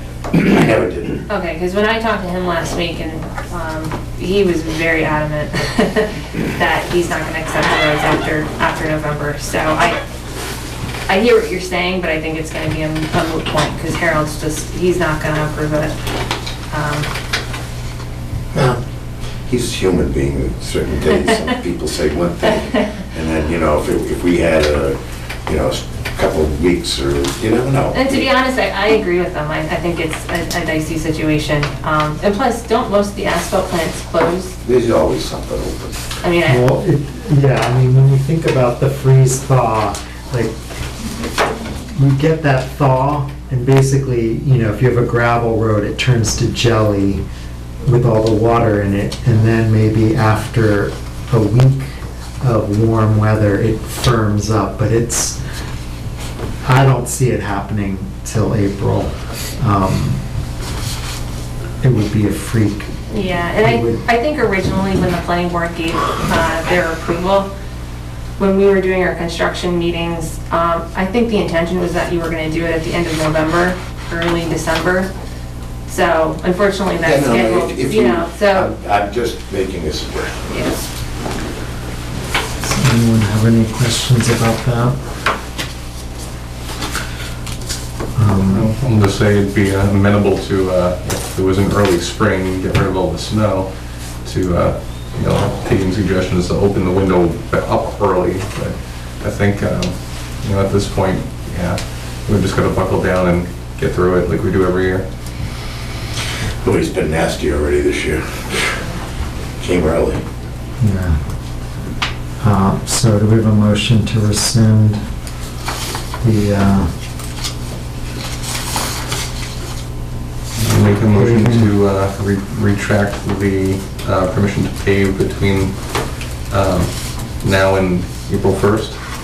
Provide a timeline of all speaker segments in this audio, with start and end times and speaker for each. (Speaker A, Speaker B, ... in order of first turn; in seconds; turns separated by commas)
Speaker A: 0.3-1.2, Speaker B: 1.3-10.0, Speaker B: 11.1-15.9, Speaker B: 16.7-17.1, Speaker A: 18.5-18.8, Speaker A: 19.4-28.2, Speaker B: 27.9-34.6, Speaker A: 34.6-36.0, Speaker B: 36.2-36.6, Speaker C: 36.5-40.6, Speaker C: 41.6-47.2, Speaker C: 47.8-55.4, Speaker C: 56.6-60.2, Speaker C: 61.8-62.9, Speaker B: 63.1-67.5, Speaker C: 63.6-64.0, Speaker B: 68.4-75.1, Speaker B: 75.9-78.7, Speaker A: 77.0-80.5, Speaker B: 80.5-80.8, Speaker C: 82.6-85.0, Speaker C: 88.2-88.7, Speaker D: 88.3-93.7, Speaker D: 94.2-105.0, Speaker A: 106.6-108.8, Speaker A: 109.6-110.2, Speaker C: 110.8-111.2, Speaker C: 112.4-115.0, Speaker C: 116.2-116.9, Speaker D: 120.5-125.8, Speaker C: 121.1-121.7, Speaker D: 126.5-129.1